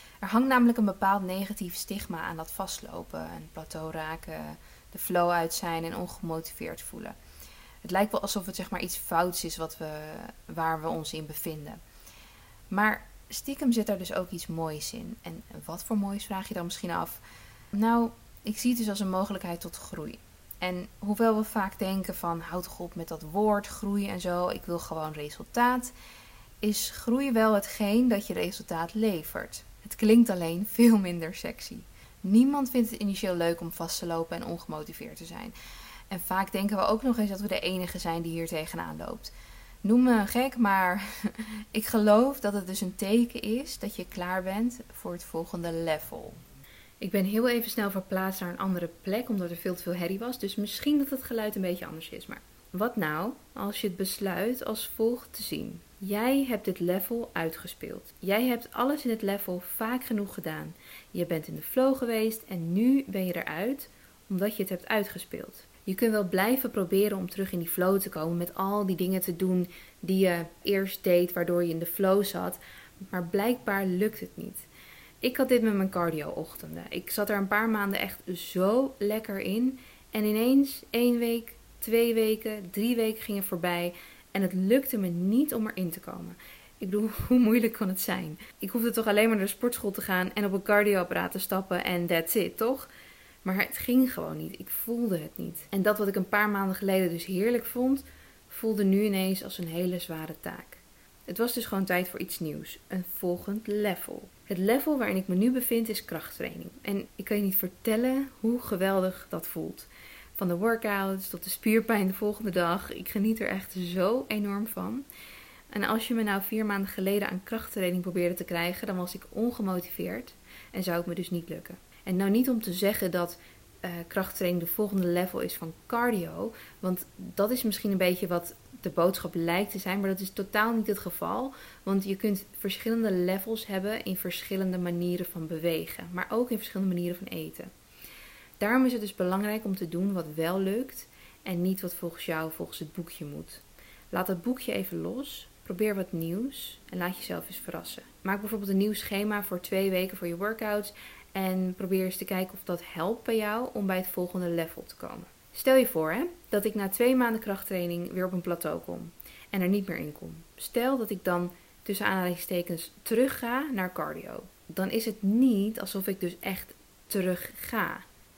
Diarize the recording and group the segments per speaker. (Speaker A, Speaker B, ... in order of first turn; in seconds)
Speaker A: 0.2-7.2, 7.8-11.8, 12.7-17.2, 17.7-25.9, 26.6-35.5, 36.1-39.3, 39.8-46.4, 47.0-72.6, 73.1-74.7, 75.2-92.9, 93.4-115.1, 115.7-137.7, 138.6-168.1